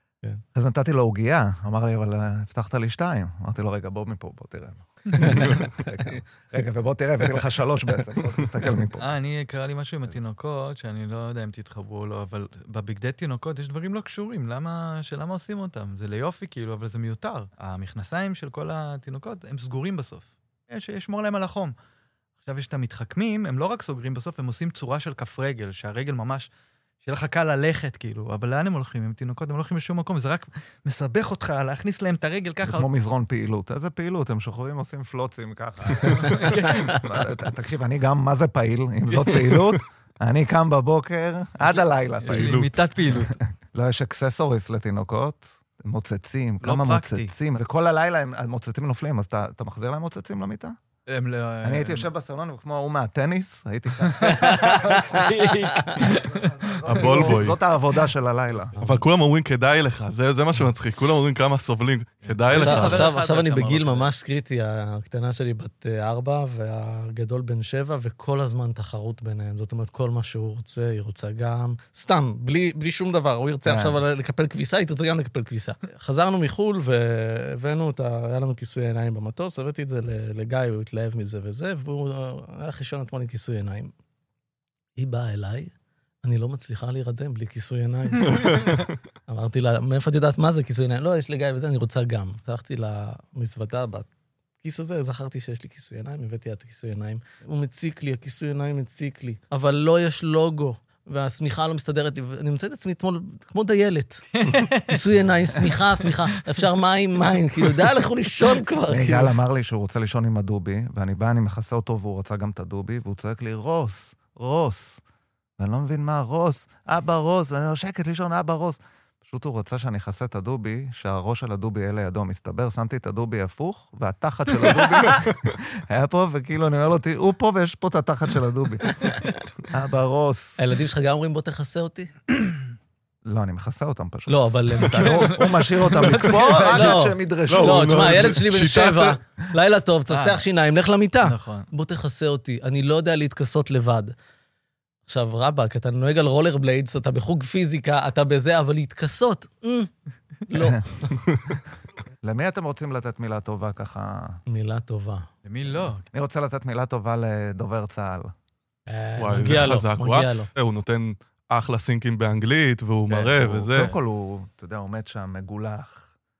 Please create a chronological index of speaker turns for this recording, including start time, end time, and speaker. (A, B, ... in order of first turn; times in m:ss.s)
0:00.5-0:09.1 A
0:05.1-0:05.4 B
0:05.3-0:05.6 C
0:09.0-0:21.7 B
0:22.4-0:26.5 B
0:27.0-0:32.9 B
0:32.6-0:42.6 A
0:36.2-0:37.0 B
0:39.3-0:39.6 C
0:41.7-0:43.4 B
0:42.2-0:42.8 C
0:43.2-0:50.8 A
0:46.6-0:47.3 B
0:51.1-0:52.1 B
0:51.6-0:55.2 A
0:54.1-0:57.3 B
0:54.4-0:55.0 D
0:56.0-0:58.7 A
0:56.8-0:57.6 C
0:58.8-0:59.0 D
0:58.8-1:03.1 C
1:02.2-1:04.1 B
1:02.5-1:23.9 D
1:13.6-1:14.0 A
1:25.0-1:34.1 D
1:28.5-1:28.9 C
1:34.6-1:44.2 D
1:44.4-1:45.0 B
1:44.9-1:49.3 D
1:48.9-1:55.0 A
1:55.6-2:09.1 A
2:08.9-2:09.4 D
2:09.7-2:10.6 A
2:10.6-2:12.1 D
2:13.2-2:18.3 A
2:14.3-2:15.4 D
2:14.9-2:17.0 B
2:16.6-2:24.1 D
2:17.5-2:19.2 C
2:20.1-2:20.4 B
2:21.2-2:21.7 B
2:25.0-2:29.9 D
2:30.4-2:30.8 D
2:32.2-2:34.4 A
2:34.5-2:35.3 D
2:35.4-2:36.0 B
2:36.1-2:38.3 A
2:38.9-2:40.5 D
2:39.2-2:43.9 C
2:43.1-2:43.9 B
2:43.6-2:46.1 A